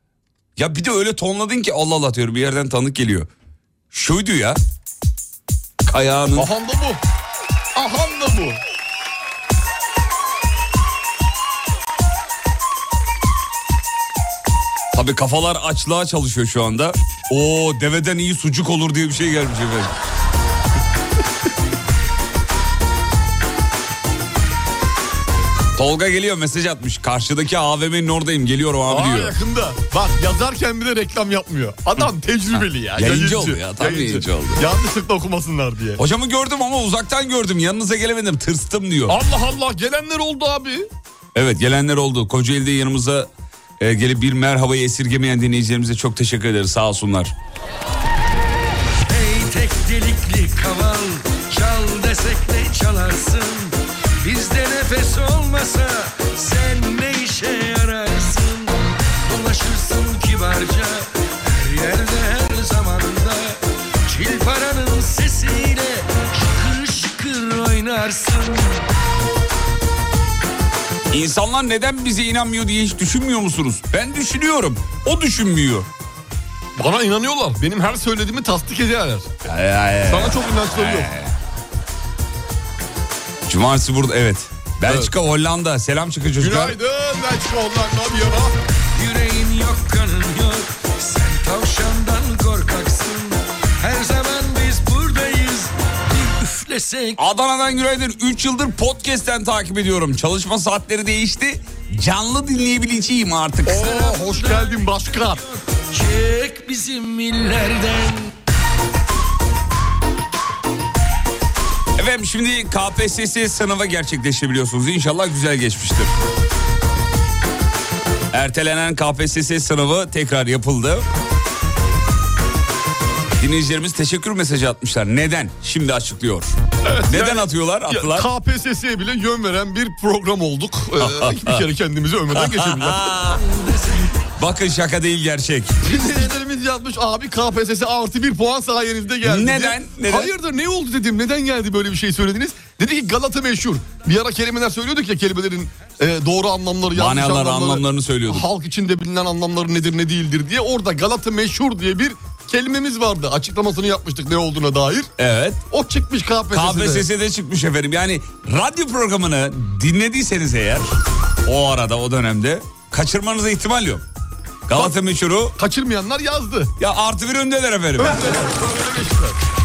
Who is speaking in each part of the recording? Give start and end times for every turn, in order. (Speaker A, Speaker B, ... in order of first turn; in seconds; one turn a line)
Speaker A: 0.6-3.3
Speaker A: 3.9-4.6
Speaker A: 5.9-6.5
Speaker B: 6.3-7.0
Speaker B: 7.7-8.6
Speaker A: 14.9-19.9
Speaker A: 25.7-29.4
Speaker B: 28.9-36.0
Speaker A: 32.5-34.6
Speaker A: 36.0-39.2
Speaker B: 39.1-40.9
Speaker A: 41.3-43.3
Speaker A: 43.8-47.3
Speaker C: 49.1-68.8
Speaker A: 71.1-75.9
Speaker B: 76.8-79.3
Speaker A: 79.5-81.3
Speaker B: 80.1-81.1
Speaker A: 83.5-86.8
Speaker B: 86.4-88.5
Speaker C: 88.9-97.2
Speaker A: 97.2-104.1
Speaker B: 103.7-105.4
Speaker C: 103.8-108.3
Speaker A: 112.0-116.2
Speaker A: 118.3-121.1
Speaker A: 123.4-126.6
Speaker B: 126.8-133.0
Speaker A: 127.1-128.3
Speaker A: 131.0-131.7
Speaker A: 132.3-133.4
Speaker C: 133.4-134.1
Speaker A: 134.4-135.8
Speaker B: 135.8-155.1
Speaker A: 139.2-140.3
Speaker A: 146.9-148.4
Speaker A: 155.2-155.6
Speaker B: 155.7-157.1
Speaker A: 156.5-160.9
Speaker A: 161.4-164.0
Speaker A: 164.7-165.6
Speaker B: 165.6-166.7
Speaker A: 166.8-168.4
Speaker B: 168.0-169.4